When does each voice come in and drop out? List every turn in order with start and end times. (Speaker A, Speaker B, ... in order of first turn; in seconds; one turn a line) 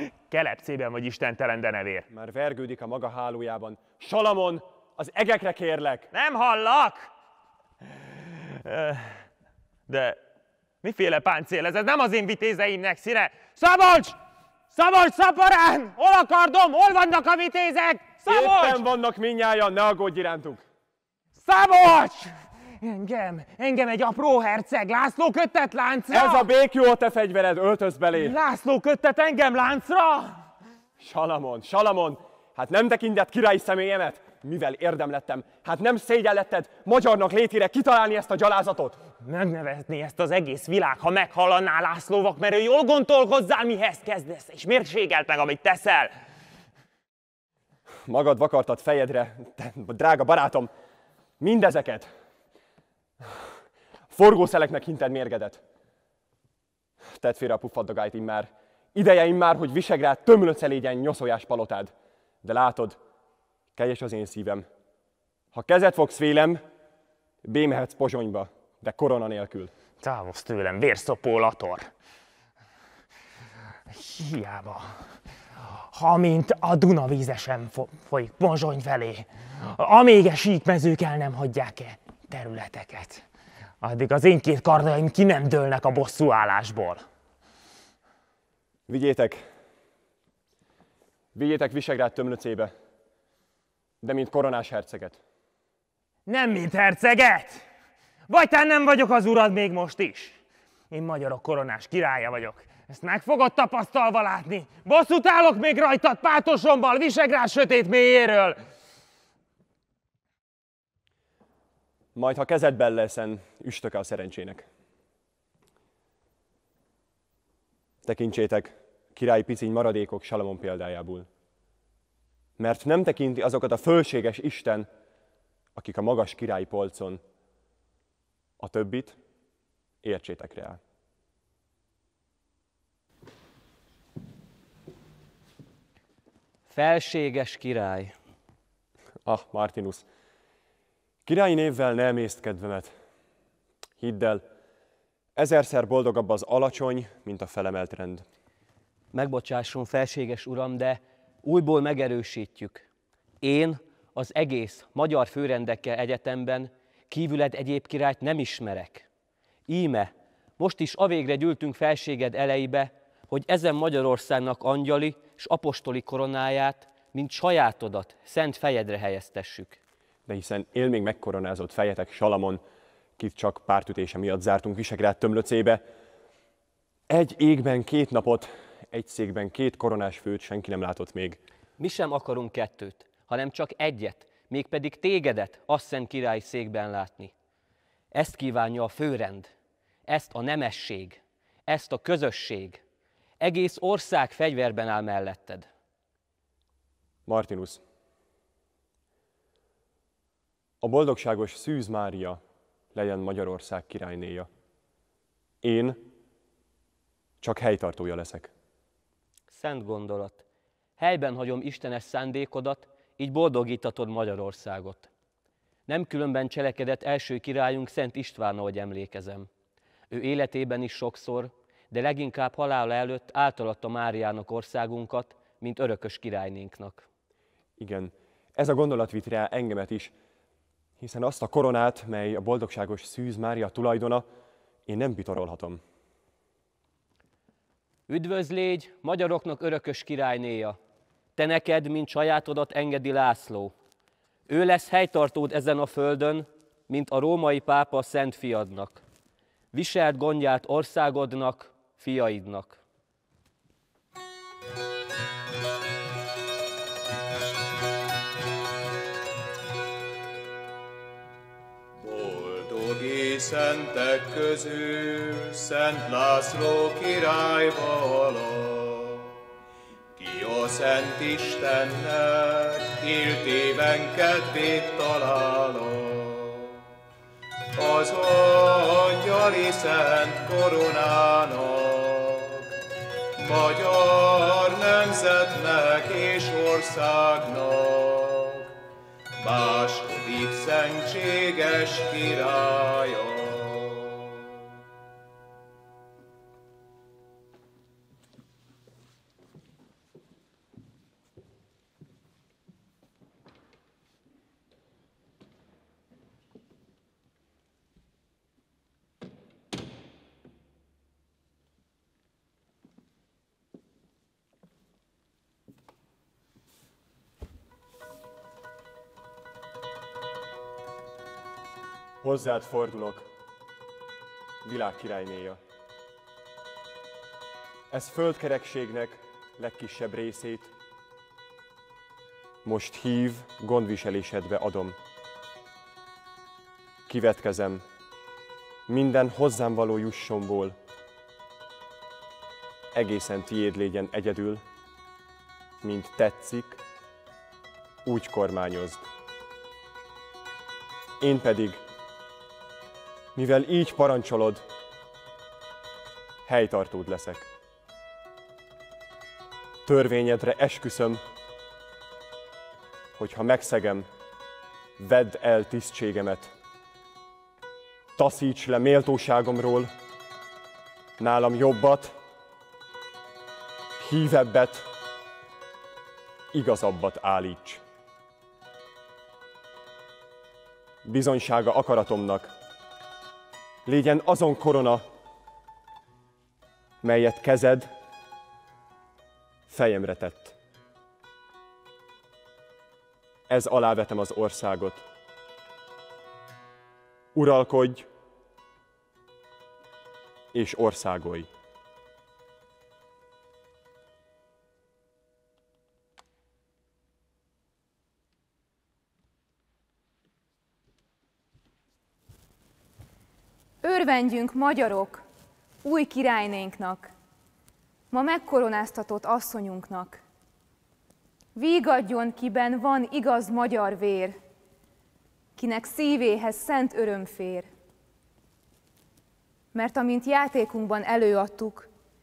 Speaker A: 0.3-2.1
Speaker B: 2.1-6.1
Speaker A: 6.1-7.1
Speaker A: 8.5-9.2
Speaker A: 9.9-10.2
Speaker A: 10.8-14.2
Speaker A: 14.7-18.8
Speaker B: 18.3-20.6
Speaker A: 21.4-26.5
Speaker B: 26.1-28.4
Speaker A: 28.2-30.4
Speaker B: 31.0-39.0
Speaker A: 39.2-46.1
Speaker B: 48.1-50.7
Speaker B: 51.4-52.1
Speaker B: 54.1-55.6
Speaker B: 57.0-61.9
Speaker B: 62.4-63.0
Speaker B: 63.8-64.7
Speaker B: 65.5-66.6
Speaker B: 67.4-69.7
Speaker A: 70.0-71.9
Speaker A: 73.9-75.0
Speaker A: 75.9-83.2
Speaker A: 83.8-87.0
Speaker B: 88.9-89.5
Speaker B: 91.3-92.7
Speaker B: 94.0-95.2
Speaker A: 96.3-97.6
Speaker A: 98.3-100.4
Speaker A: 100.9-108.6
Speaker B: 112.2-114.7
Speaker B: 118.0-121.3
Speaker B: 122.6-124.9
Speaker B: 125.8-127.2
Speaker B: 128.6-129.2
Speaker B: 130.0-130.8
Speaker C: 136.7-138.2
Speaker B: 139.2-140.1
Speaker B: 141.3-142.9
Speaker B: 144.0-144.4
Speaker B: 145.4-148.2
Speaker C: 149.1-152.9
Speaker C: 153.4-159.1
Speaker C: 159.7-169.8
Speaker B: 170.3-172.6
Speaker B: 173.2-175.8
Speaker B: 177.1-181.4
Speaker C: 181.8-187.3
Speaker C: 188.1-189.5
Speaker C: 190.1-192.8
Speaker C: 193.4-195.7
Speaker B: 197.3-197.8
Speaker B: 200.8-202.4
Speaker B: 202.9-204.5
Speaker B: 205.6-206.0
Speaker B: 207.4-208.5
Speaker C: 209.5-210.4
Speaker C: 211.0-215.1
Speaker C: 215.9-219.5
Speaker C: 220.1-227.1
Speaker B: 227.8-230.1
Speaker B: 231.0-234.3
Speaker B: 234.9-235.8
Speaker C: 238.1-240.8
Speaker C: 241.4-243.7
Speaker C: 244.5-249.0
Speaker C: 249.7-252.8
Speaker D: 262.0-269.3
Speaker D: 270.2-276.8
Speaker D: 277.8-282.7
Speaker D: 283.4-288.7
Speaker D: 289.4-294.5
Speaker B: 322.2-323.3
Speaker B: 324.6-325.6
Speaker B: 327.9-330.7
Speaker B: 332.6-335.0
Speaker B: 337.1-337.8
Speaker B: 338.9-340.8
Speaker B: 342.9-344.6
Speaker B: 345.8-346.8
Speaker B: 348.1-349.1
Speaker B: 351.2-351.8
Speaker B: 353.4-354.6
Speaker B: 356.5-357.5
Speaker B: 359.9-361.2
Speaker B: 363.2-364.1
Speaker B: 365.0-366.5
Speaker B: 368.2-369.9
Speaker B: 371.2-372.2
Speaker B: 374.0-374.9
Speaker B: 376.5-377.8
Speaker B: 381.1-382.5
Speaker B: 383.9-385.0
Speaker B: 387.0-387.9
Speaker B: 389.7-390.6
Speaker B: 393.5-395.0
Speaker B: 397.3-398.1
Speaker B: 400.5-401.5
Speaker E: 413.8-415.2
Speaker E: 415.8-417.1
Speaker E: 418.1-420.2
Speaker E: 421.6-424.4
Speaker E: 425.6-427.7
Speaker E: 429.7-431.9